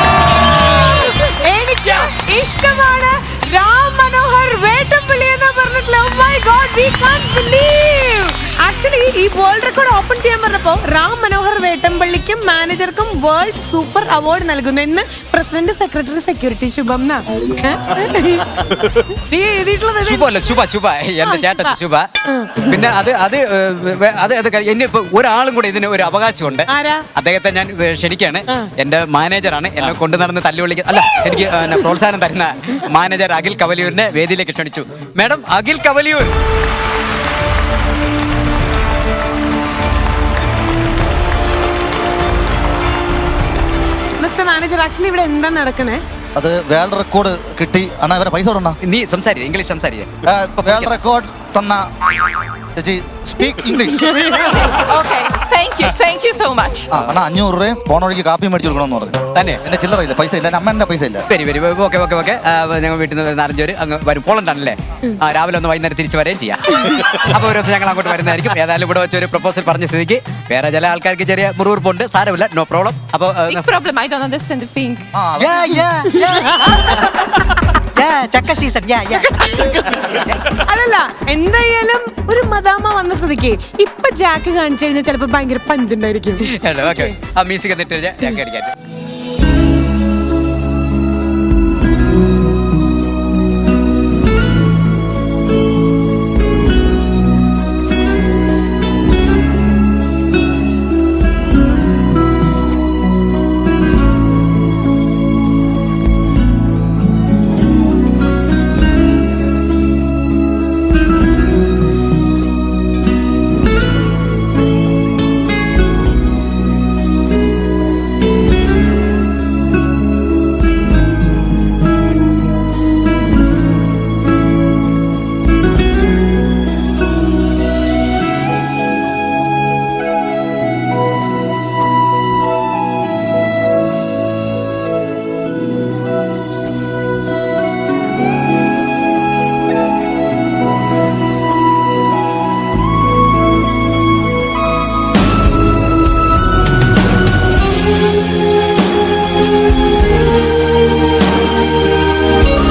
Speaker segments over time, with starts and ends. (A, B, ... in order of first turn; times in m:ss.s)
0:00.8-0:20.3 A
0:20.0-0:22.1 B
0:21.2-0:21.8 A
0:22.3-0:22.7 A
0:22.7-0:36.3 B
0:26.7-0:27.0 A
0:44.2-0:46.0 A
0:46.4-0:48.8 C
0:48.8-0:51.0 B
0:50.2-0:51.9 C
0:52.7-0:54.1 C
0:54.0-0:56.9 D
0:56.9-1:01.3 C
0:59.4-0:59.6 B
1:01.3-1:13.7 B
1:13.5-1:15.1 D
1:15.1-1:15.8 C
1:15.4-1:17.2 B
1:17.9-1:20.4 B
1:20.6-1:27.1 A
1:26.5-1:28.7 B